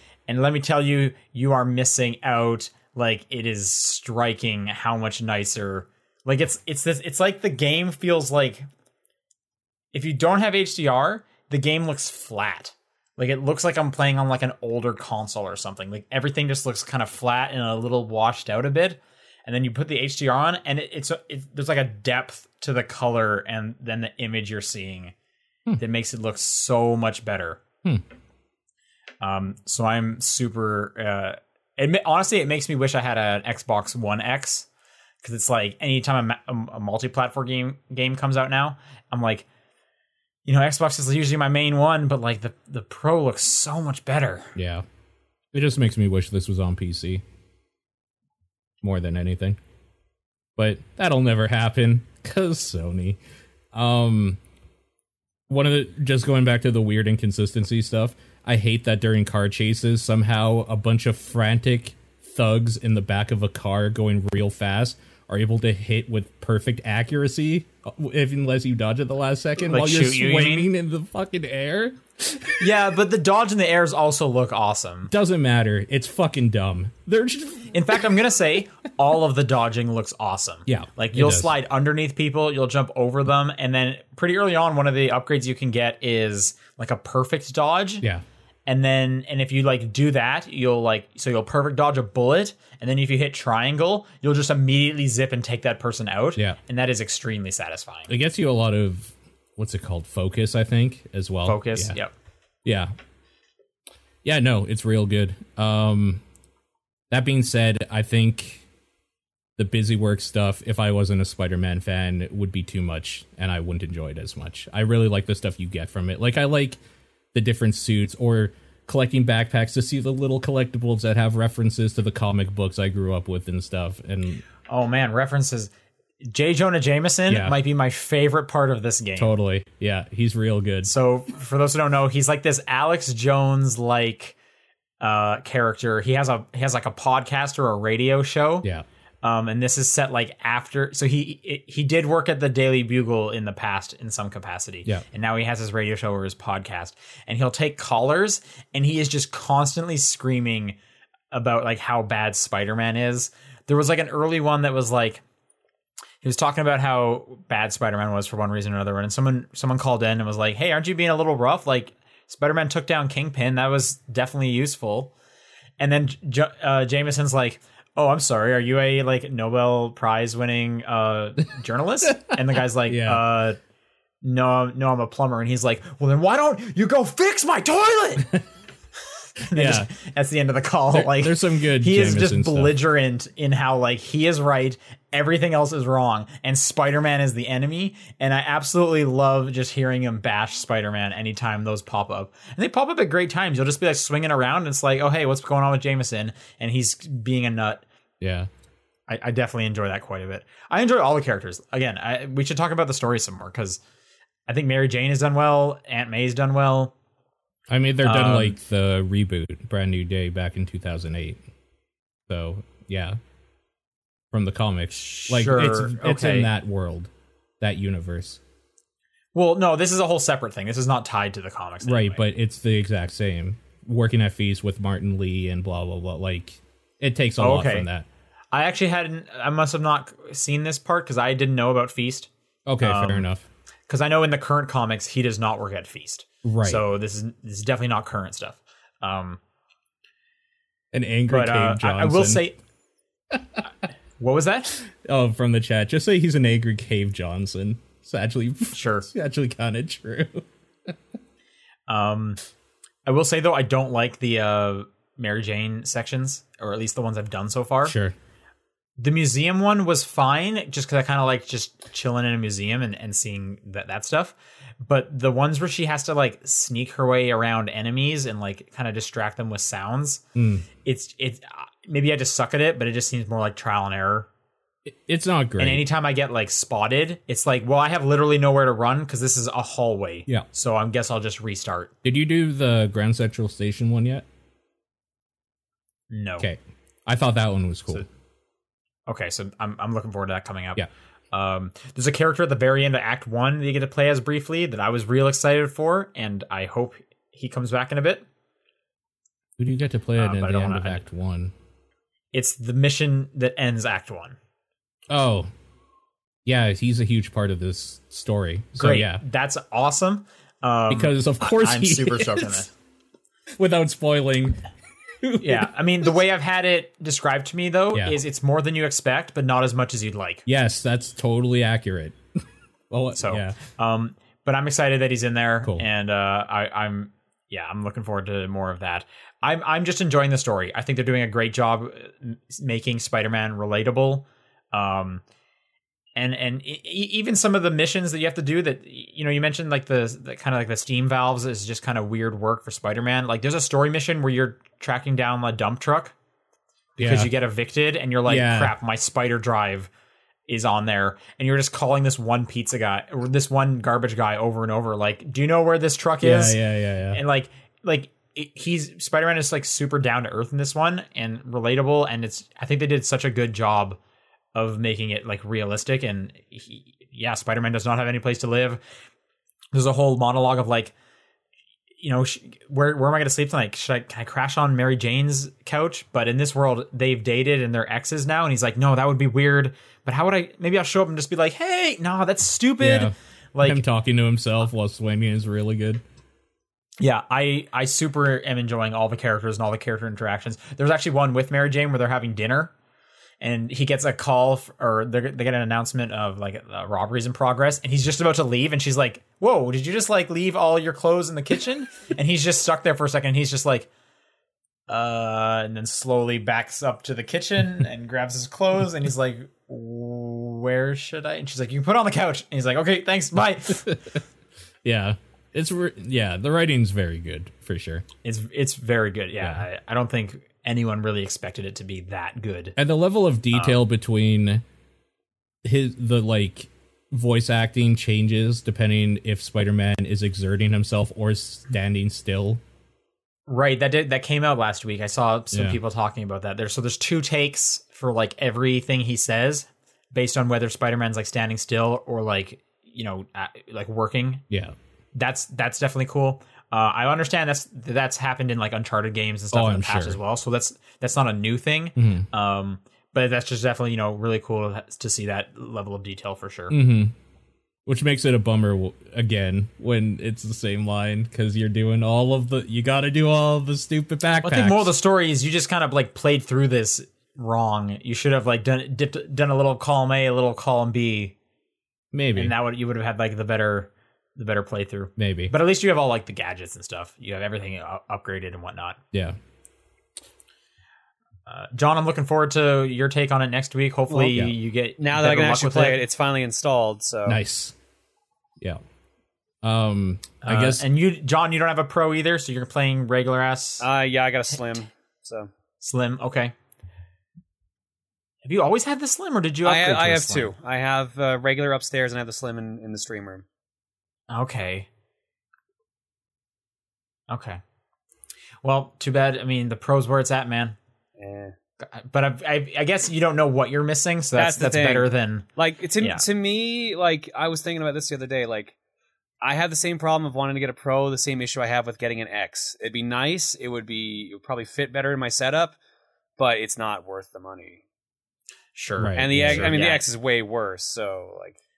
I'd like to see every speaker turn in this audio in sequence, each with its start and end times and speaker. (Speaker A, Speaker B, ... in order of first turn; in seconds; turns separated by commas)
Speaker A: 0.3-8.6, Speaker A: 9.9-25.1, Speaker A: 25.8-27.6, Speaker A: 29.2-34.7, Speaker A: 35.2-39.5, Speaker A: 40.5-44.5, Speaker B: 44.5-44.8, Speaker B: 45.5-47.2, Speaker B: 48.8-49.6, Speaker B: 50.6-53.2, Speaker B: 53.7-54.4, Speaker B: 55.5-72.7, Speaker A: 69.7-70.7, Speaker A: 72.6-75.1, Speaker B: 75.1-78.0, Speaker A: 77.7-88.0, Speaker B: 80.7-81.5, Speaker A: 88.7-98.1, Speaker B: 98.1-102.0, Speaker A: 101.5-102.1, Speaker B: 102.6-102.9, Speaker B: 104.2-106.2, Speaker B: 107.1-108.6, Speaker B: 109.6-116.8, Speaker B: 117.3-124.4, Speaker A: 124.7-129.3, Speaker B: 127.3-127.6, Speaker B: 129.2-130.9, Speaker A: 130.8-134.3, Speaker A: 135.0-138.7, Speaker A: 139.2-150.8, Speaker A: 151.3-155.2, Speaker A: 156.2-165.1, Speaker A: 165.8-173.6, Speaker B: 172.0-173.2, Speaker A: 174.2-178.4, Speaker A: 179.5-197.8, Speaker B: 179.5-179.9, Speaker B: 180.9-182.7, Speaker B: 198.2-198.5, Speaker A: 199.1-203.8, Speaker A: 204.5-206.9, Speaker B: 207.7-211.4, Speaker A: 208.0-208.6, Speaker B: 212.3-213.2, Speaker B: 214.3-218.4, Speaker A: 214.9-216.5, Speaker A: 219.3-222.2, Speaker B: 221.8-228.1, Speaker A: 227.4-227.9, Speaker A: 228.5-232.3, Speaker B: 232.7-233.4, Speaker A: 232.8-233.3, Speaker A: 233.9-239.4, Speaker B: 236.4-236.8, Speaker B: 240.9-242.4, Speaker A: 241.3-242.6, Speaker B: 243.3-243.6, Speaker A: 244.2-244.8, Speaker B: 244.8-250.9, Speaker A: 248.7-249.1, Speaker A: 251.9-252.4, Speaker A: 253.1-257.9, Speaker B: 257.8-258.1, Speaker A: 259.0-270.2, Speaker B: 270.4-270.6, Speaker A: 270.8-274.3, Speaker B: 274.9-275.8, Speaker A: 275.6-281.9, Speaker B: 282.0-284.2, Speaker A: 286.1-286.5, Speaker B: 286.4-288.1, Speaker A: 289.1-298.2, Speaker B: 299.6-301.5, Speaker A: 300.2-301.0, Speaker A: 302.3-304.4, Speaker B: 305.1-305.5, Speaker B: 306.4-309.2, Speaker A: 308.8-312.7, Speaker B: 310.9-312.7, Speaker B: 313.6-314.6, Speaker B: 315.2-315.7, Speaker A: 315.4-320.4, Speaker B: 317.9-318.2, Speaker B: 320.4-322.2, Speaker B: 322.9-323.6, Speaker A: 323.1-335.2, Speaker A: 336.1-346.1, Speaker A: 347.0-349.9, Speaker B: 347.0-347.3, Speaker B: 348.2-348.7, Speaker A: 350.5-356.6, Speaker B: 356.2-357.2, Speaker A: 357.1-364.0, Speaker A: 364.5-368.8, Speaker A: 369.7-370.9, Speaker A: 372.0-383.8, Speaker B: 382.8-386.0, Speaker A: 387.0-392.7, Speaker A: 393.4-403.9, Speaker A: 404.9-414.0, Speaker B: 414.8-418.1, Speaker A: 418.2-422.8, Speaker B: 422.8-424.6, Speaker A: 423.5-423.8, Speaker B: 425.6-432.6, Speaker A: 433.5-444.4, Speaker B: 435.5-435.8, Speaker B: 444.5-444.8, Speaker A: 445.1-456.8, Speaker B: 449.5-450.2, Speaker B: 452.0-452.3, Speaker B: 456.7-457.1, Speaker B: 457.9-464.9, Speaker A: 464.4-471.3, Speaker B: 472.1-472.5, Speaker A: 472.3-479.0, Speaker B: 475.2-475.5, Speaker B: 479.1-479.4, Speaker A: 481.5-486.0, Speaker C: 484.1-484.3, Speaker C: 485.0-487.4, Speaker B: 487.2-487.7, Speaker B: 489.6-490.8, Speaker A: 490.4-493.9, Speaker C: 493.8-495.5, Speaker A: 495.8-496.5, Speaker A: 498.4-500.5, Speaker C: 499.6-503.4, Speaker A: 504.3-504.9, Speaker A: 507.3-507.6, Speaker A: 508.6-510.8, Speaker C: 511.2-511.5, Speaker A: 511.9-515.5, Speaker C: 514.3-518.7, Speaker C: 519.4-525.8, Speaker C: 526.4-527.8, Speaker A: 528.7-530.0, Speaker B: 529.0-529.7, Speaker C: 529.1-531.6